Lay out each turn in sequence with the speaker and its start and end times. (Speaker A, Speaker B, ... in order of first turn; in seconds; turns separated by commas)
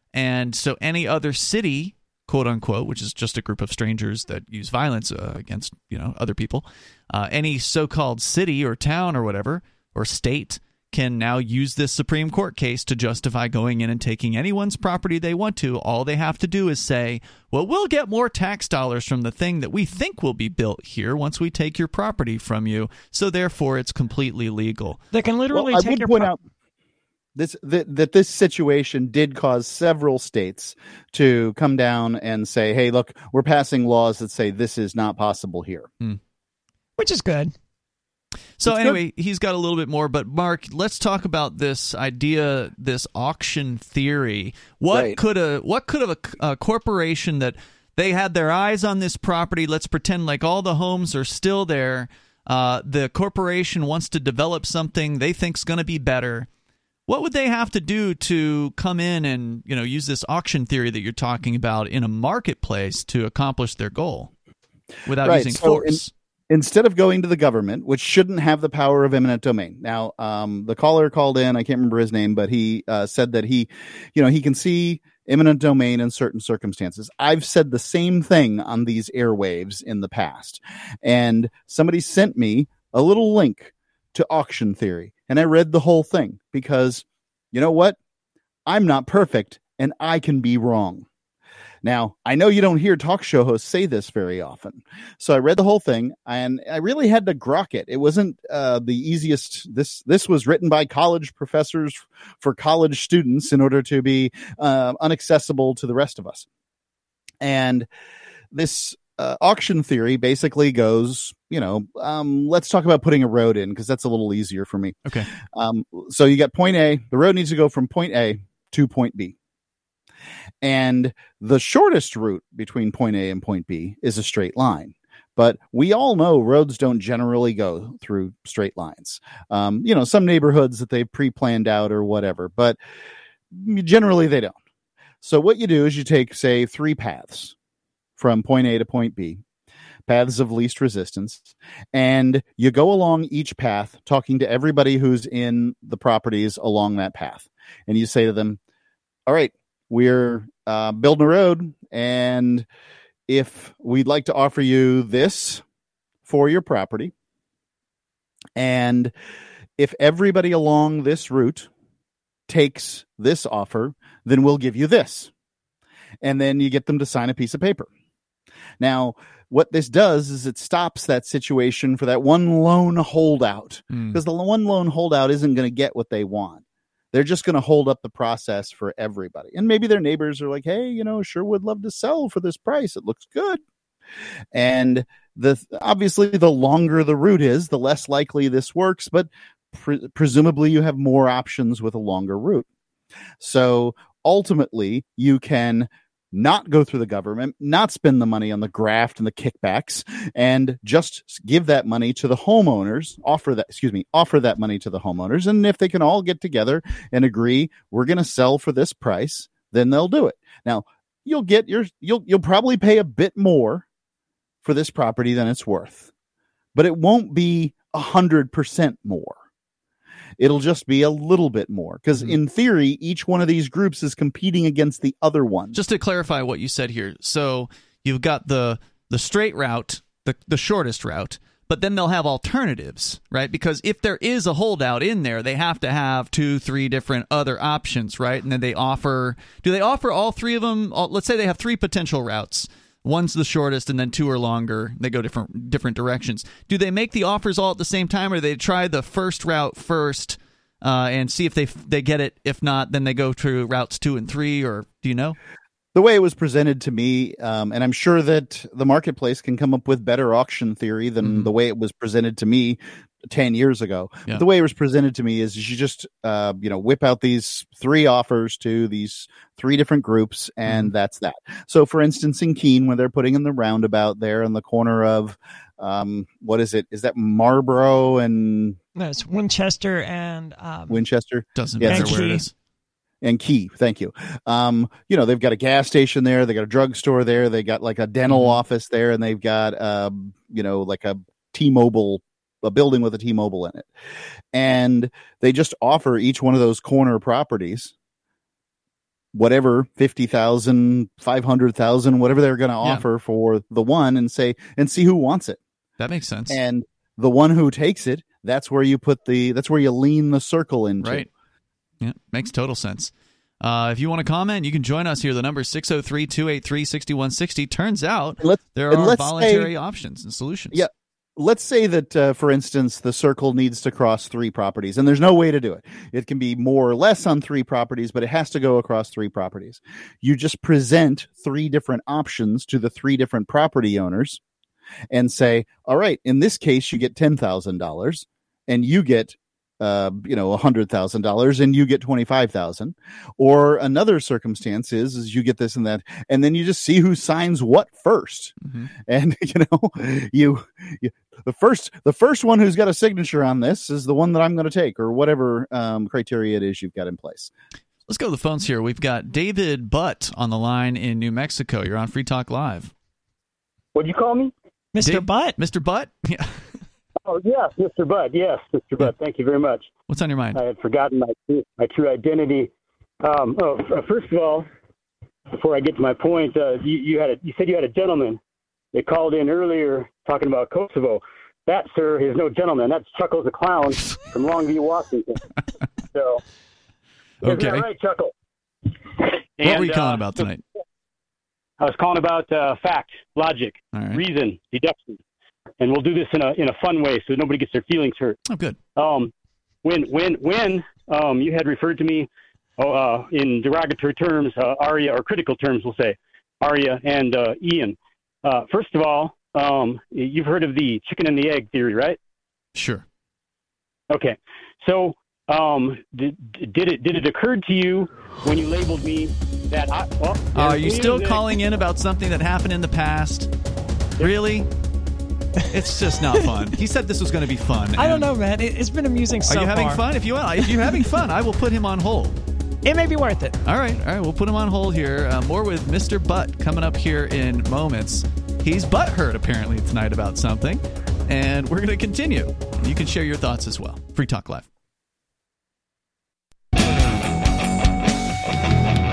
Speaker A: 0.1-25.0, Speaker B: 25.1-26.3, Speaker C: 25.5-26.4, Speaker C: 27.4-35.9, Speaker B: 37.0-37.5, Speaker A: 38.6-56.5, Speaker C: 38.6-39.0, Speaker C: 44.9-45.2, Speaker A: 57.1-64.3, Speaker A: 65.1-66.1, Speaker C: 65.2-88.0, Speaker C: 88.7-91.1, Speaker C: 91.8-106.5, Speaker C: 107.4-107.9, Speaker C: 108.5-115.0, Speaker C: 115.5-119.3, Speaker C: 120.6-132.8, Speaker C: 133.5-134.6, Speaker C: 135.2-137.6, Speaker C: 138.2-139.4, Speaker C: 140.1-148.6, Speaker C: 149.3-152.7, Speaker C: 153.3-155.6, Speaker C: 156.3-157.1, Speaker C: 158.6-159.1, Speaker C: 159.8-161.7, Speaker C: 162.5-165.3, Speaker C: 166.2-167.9, Speaker C: 168.8-183.6, Speaker A: 173.9-174.2, Speaker C: 184.5-192.7, Speaker C: 193.4-213.9, Speaker C: 214.6-216.1, Speaker C: 216.8-219.4, Speaker C: 220.4-225.8, Speaker A: 225.7-255.4, Speaker C: 255.9-278.8, Speaker A: 261.2-261.5, Speaker A: 270.7-270.9, Speaker B: 279.0-281.0, Speaker C: 280.9-282.3, Speaker A: 281.6-282.5, Speaker B: 281.9-282.4, Speaker C: 283.2-293.9, Speaker A: 288.3-288.6, Speaker C: 294.5-297.9, Speaker C: 299.3-305.6, Speaker A: 306.0-306.6, Speaker C: 306.5-311.3, Speaker A: 311.0-311.3, Speaker A: 312.0-320.9, Speaker C: 318.4-319.7, Speaker C: 320.7-334.4, Speaker C: 335.1-348.5, Speaker A: 348.6-348.9, Speaker C: 349.1-357.5, Speaker A: 358.1-362.9, Speaker D: 363.9-364.5, Speaker B: 364.9-365.6, Speaker A: 365.1-366.6, Speaker D: 367.2-369.9, Speaker A: 370.1-370.6, Speaker D: 370.6-374.7, Speaker D: 375.5-378.4, Speaker D: 378.9-385.4, Speaker D: 386.1-386.4, Speaker A: 387.4-387.9, Speaker D: 387.4-388.3, Speaker D: 389.6-390.5, Speaker A: 389.6-390.6, Speaker D: 391.8-395.2, Speaker A: 393.9-394.2, Speaker D: 395.8-398.4, Speaker A: 398.5-398.8, Speaker D: 399.0-399.3, Speaker D: 399.8-412.2, Speaker A: 412.8-413.0, Speaker D: 414.1-421.6, Speaker A: 420.5-423.5, Speaker A: 424.2-424.7, Speaker A: 425.7-428.3, Speaker B: 428.0-430.0, Speaker A: 429.5-432.4, Speaker B: 430.6-431.1, Speaker B: 432.9-433.6, Speaker A: 433.6-444.7